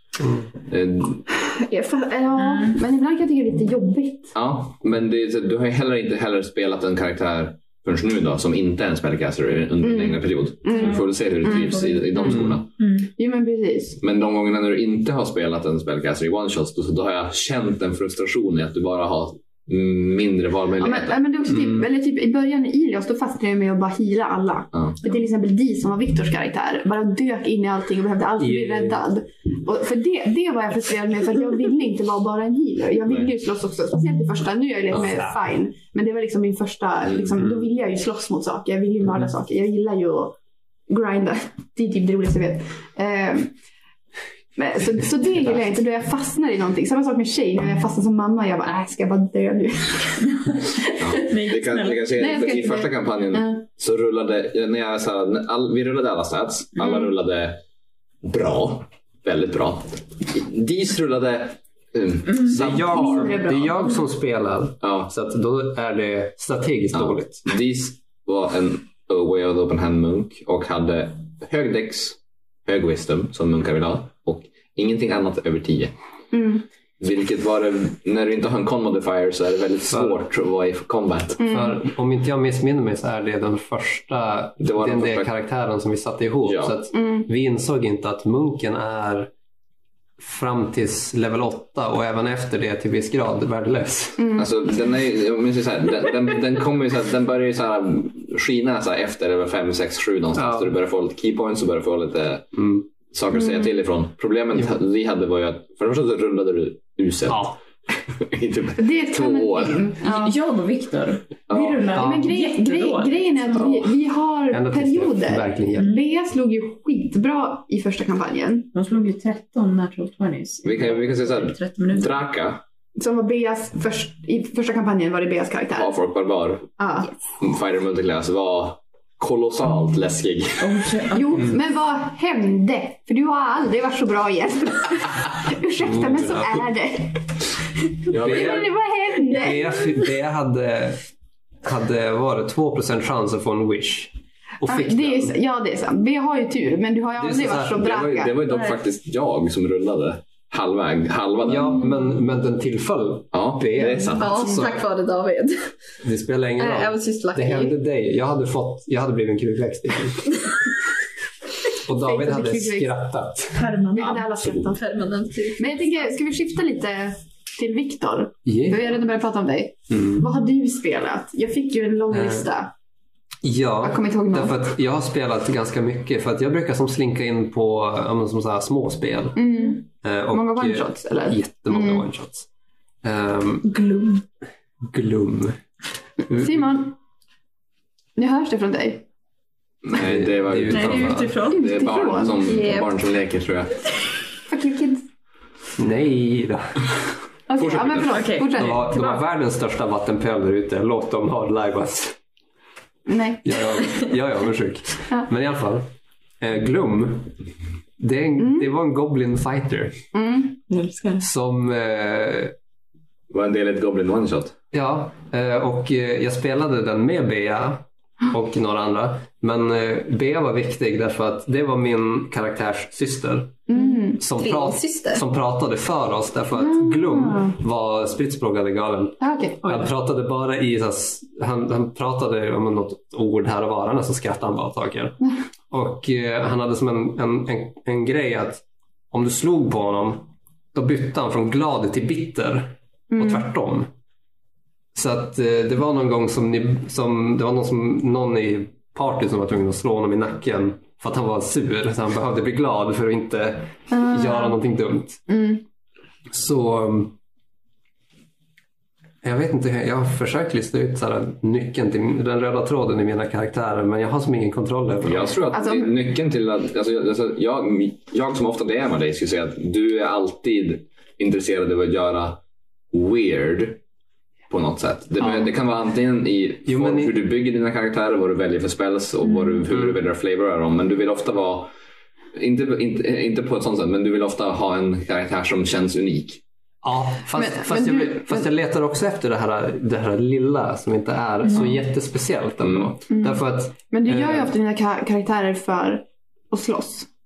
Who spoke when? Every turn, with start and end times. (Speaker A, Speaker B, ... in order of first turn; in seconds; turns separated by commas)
Speaker A: 0.7-1.2, Speaker B: 1.4-4.3, Speaker C: 2.4-2.8, Speaker A: 4.3-12.7, Speaker B: 9.8-12.4, Speaker C: 10.7-13.1, Speaker D: 12.3-12.6, Speaker B: 13.2-14.0, Speaker A: 14.0-21.2, Speaker B: 20.8-40.4, Speaker D: 21.5-21.9, Speaker D: 28.4-29.0, Speaker D: 34.9-35.4, Speaker B: 40.9-43.5, Speaker B: 44.6-50.6, Speaker A: 51.0-57.6, Speaker C: 51.1-52.5, Speaker B: 52.1-53.6, Speaker A: 58.2-63.4, Speaker C: 62.3-62.6, Speaker D: 62.5-67.4, Speaker B: 62.7-64.0, Speaker A: 64.8-65.1, Speaker A: 66.9-75.9, Speaker B: 76.3-76.6, Speaker A: 77.0-81.5, Speaker D: 79.9-80.2, Speaker B: 81.4-81.8, Speaker D: 81.5-89.3, Speaker A: 84.6-85.3, Speaker A: 86.4-86.7, Speaker B: 86.9-87.3, Speaker D: 90.2-94.2, Speaker B: 94.2-94.5, Speaker A: 94.4-107.5, Speaker D: 100.3-100.7, Speaker D: 102.5-102.8, Speaker B: 103.4-103.7, Speaker D: 107.3-107.6, Speaker A: 108.1-109.9, Speaker B: 108.8-110.3, Speaker C: 110.0-113.8, Speaker A: 111.5-111.9, Speaker D: 111.9-112.3, Speaker B: 111.9-118.7, Speaker D: 114.5-115.9, Speaker C: 115.8-116.0, Speaker C: 118.7-122.2, Speaker A: 120.6-122.6, Speaker B: 123.0-125.9, Speaker A: 125.7-126.7, Speaker B: 126.8-127.1, Speaker A: 127.4-130.9, Speaker C: 130.6-131.5, Speaker B: 131.1-137.2, Speaker D: 135.8-136.7, Speaker A: 138.1-138.7, Speaker D: 138.1-138.7, Speaker B: 138.2-139.8, Speaker D: 139.2-141.0, Speaker D: 141.6-145.3, Speaker B: 144.7-148.4, Speaker D: 147.2-148.0, Speaker A: 147.8-151.9, Speaker D: 151.4-154.8, Speaker A: 153.3-154.7, Speaker E: 154.1-155.7, Speaker D: 156.0-160.5, Speaker E: 156.6-157.8, Speaker D: 161.9-163.7, Speaker B: 162.0-163.0, Speaker C: 163.6-164.2, Speaker B: 163.9-164.8, Speaker E: 164.0-165.7, Speaker B: 165.6-172.7, Speaker D: 168.4-168.8, Speaker D: 169.9-170.2, Speaker D: 172.1-172.4, Speaker D: 173.4-182.5, Speaker B: 173.8-174.6, Speaker B: 179.4-182.1, Speaker D: 183.0-183.7, Speaker C: 183.7-184.2, Speaker D: 184.9-185.6, Speaker D: 186.3-186.6, Speaker B: 186.3-186.9, Speaker B: 188.2-189.0, Speaker A: 189.8-193.8, Speaker D: 189.9-191.4, Speaker C: 190.7-191.7, Speaker B: 191.5-192.6, Speaker E: 192.4-192.9, Speaker B: 194.5-195.0, Speaker D: 195.8-196.9, Speaker B: 197.5-199.2, Speaker A: 197.6-198.3, Speaker C: 198.1-199.2, Speaker D: 198.6-202.2, Speaker B: 203.1-203.6, Speaker D: 203.4-205.9, Speaker D: 206.4-207.3, Speaker D: 208.0-210.0, Speaker B: 208.4-208.7, Speaker B: 210.1-210.6, Speaker C: 210.7-211.2, Speaker D: 211.2-212.5, Speaker A: 213.3-214.6, Speaker D: 214.7-223.6, Speaker B: 223.7-224.2, Speaker D: 224.2-235.2, Speaker E: 224.3-225.2, Speaker B: 226.6-227.6, Speaker B: 229.2-229.6, Speaker D: 235.7-243.9, Speaker B: 243.1-243.5, Speaker D: 244.9-255.2, Speaker B: 253.9-254.6, Speaker B: 255.3-255.6, Speaker D: 256.3-257.1, Speaker D: 259.2-265.4, Speaker A: 265.0-272.4, Speaker B: 265.5-265.9, Speaker A: 272.9-273.8, Speaker A: 274.5-281.7, Speaker D: 275.2-275.5, Speaker D: 276.6-277.2, Speaker D: 279.7-280.0, Speaker A: 282.3-286.4, Speaker D: 286.8-294.5, Speaker B: 287.3-288.5, Speaker A: 292.6-292.9, Speaker B: 293.1-297.1